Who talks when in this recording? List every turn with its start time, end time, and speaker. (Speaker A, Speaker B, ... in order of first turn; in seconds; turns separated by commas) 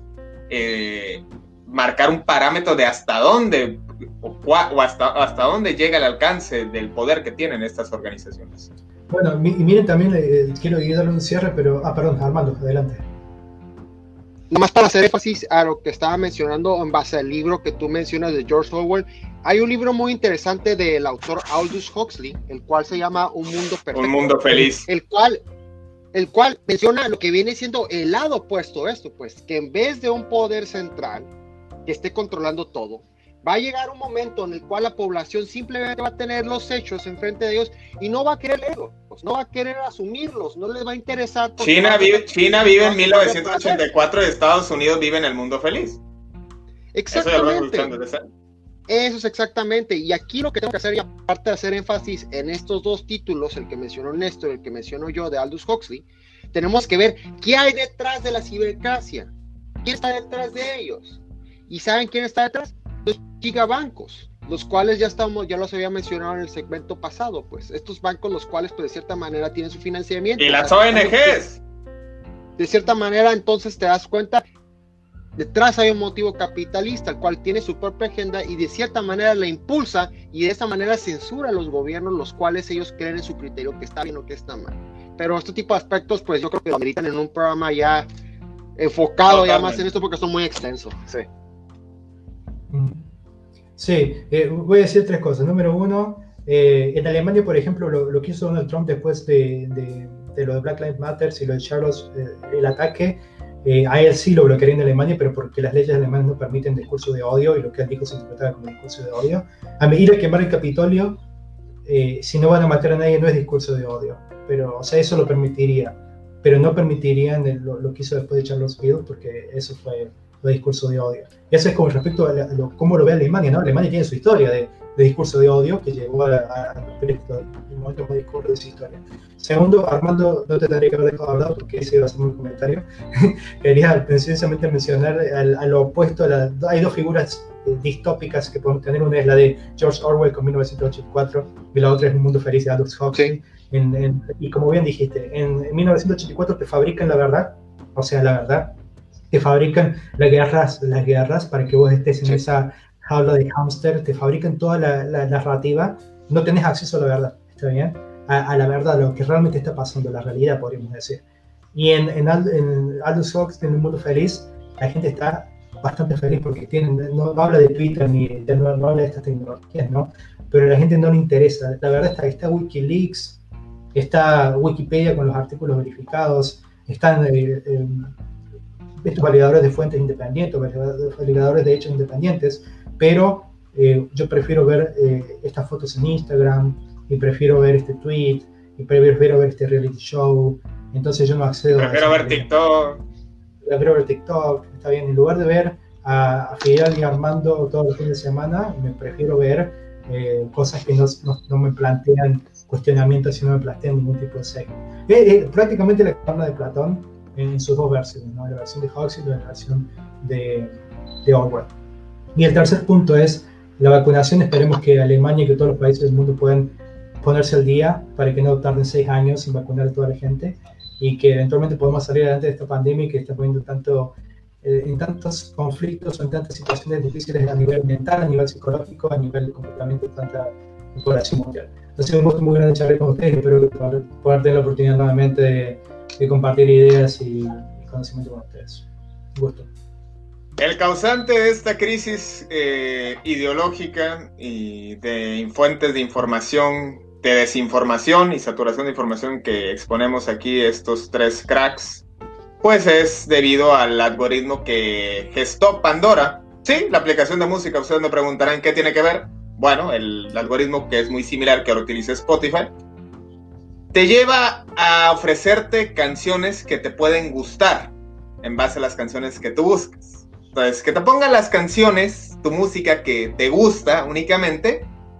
Speaker A: 0.5-8.7, Speaker B: 9.1-13.1, Speaker C: 14.5-25.4, Speaker A: 23.9-24.9, Speaker C: 26.1-31.3, Speaker C: 31.9-43.8, Speaker A: 41.6-46.0, Speaker C: 46.9-47.9, Speaker A: 47.1-48.2, Speaker C: 48.9-59.3, Speaker C: 59.8-61.2, Speaker C: 61.7-71.4, Speaker A: 70.4-71.6, Speaker C: 72.6-74.4, Speaker C: 75.4-88.1, Speaker C: 88.8-91.3, Speaker A: 89.2-89.8, Speaker B: 92.7-93.1, Speaker B: 93.8-111.2, Speaker B: 111.8-148.8, Speaker B: 149.3-161.2, Speaker B: 161.7-173.4, Speaker B: 173.9-178.1, Speaker B: 179.0-192.5, Speaker A: 191.8-193.0, Speaker B: 193.6-211.7, Speaker B: 212.3-239.7, Speaker A: 240.6-252.0, Speaker A: 252.6-262.7, Speaker A: 263.9-274.9